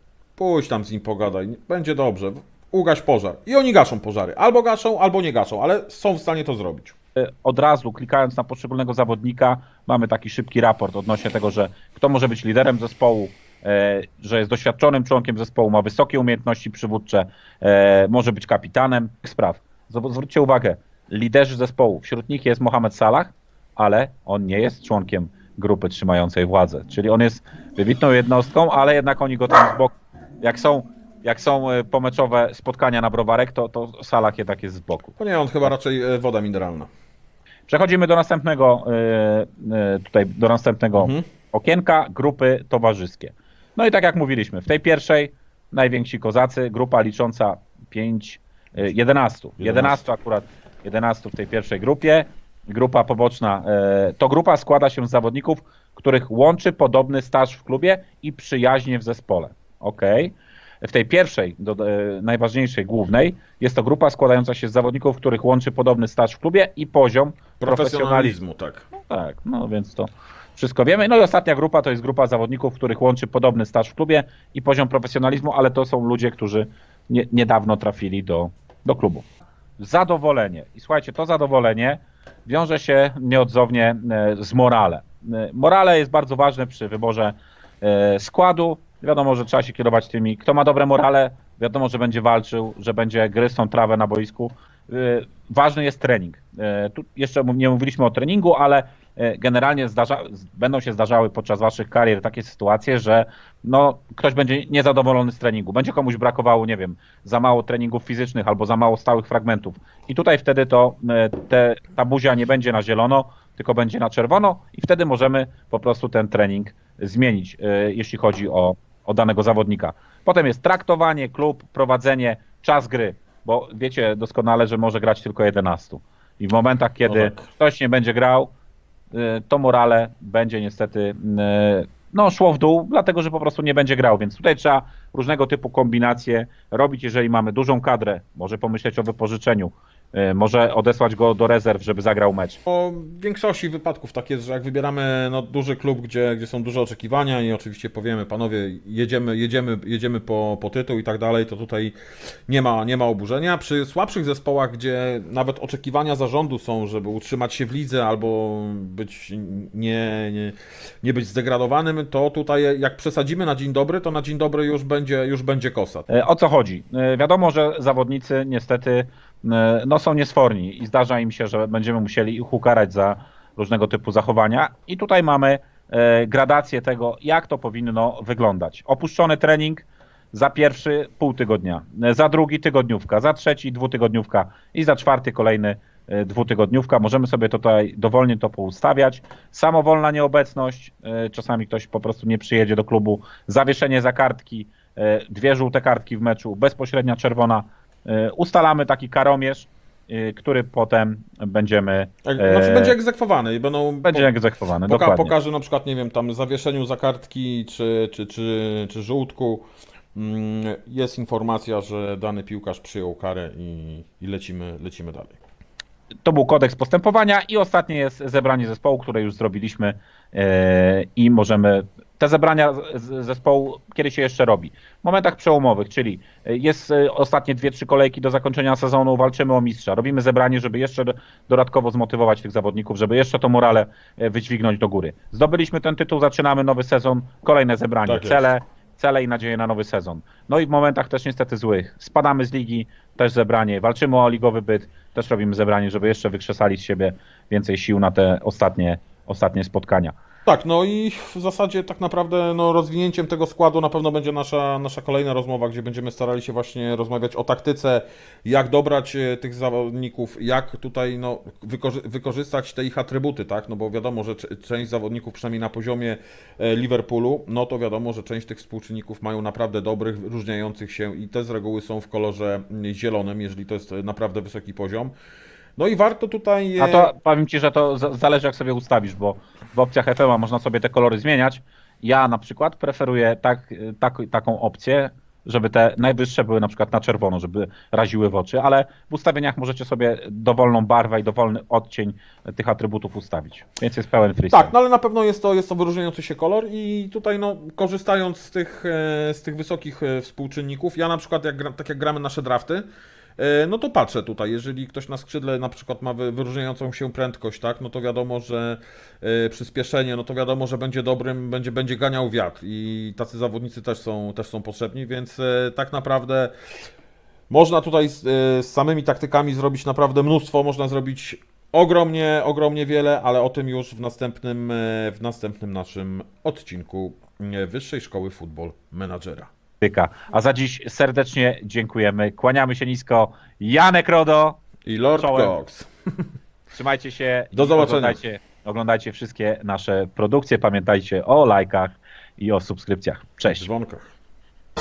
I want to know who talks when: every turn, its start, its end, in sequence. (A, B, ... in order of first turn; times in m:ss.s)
0:00.4-0:06.9 A
0:07.2-0:35.1 B
0:35.2-0:36.9 A
0:37.7-1:08.4 B
0:41.0-0:41.2 A
0:49.6-0:50.0 A
1:07.6-1:08.8 A
1:08.9-1:19.2 B
1:19.8-2:08.5 B
2:07.0-2:07.5 A
2:09.1-2:22.6 B
2:22.7-2:31.9 A
2:32.5-2:46.1 A
2:46.1-3:23.0 B
3:22.2-3:24.3 A
3:24.0-3:25.3 B
3:24.8-3:35.4 A
3:36.2-4:10.2 B
3:58.0-3:58.4 A
4:10.4-4:35.1 A
4:35.8-4:37.1 A
4:36.8-4:54.7 B
4:54.5-5:02.8 A
5:03.4-5:16.5 A
5:17.5-5:29.5 A
5:29.8-5:34.6 B
5:34.8-5:35.9 A
5:35.2-5:35.6 B
5:36.7-5:43.7 B
5:37.5-5:38.2 A
5:43.5-5:44.1 A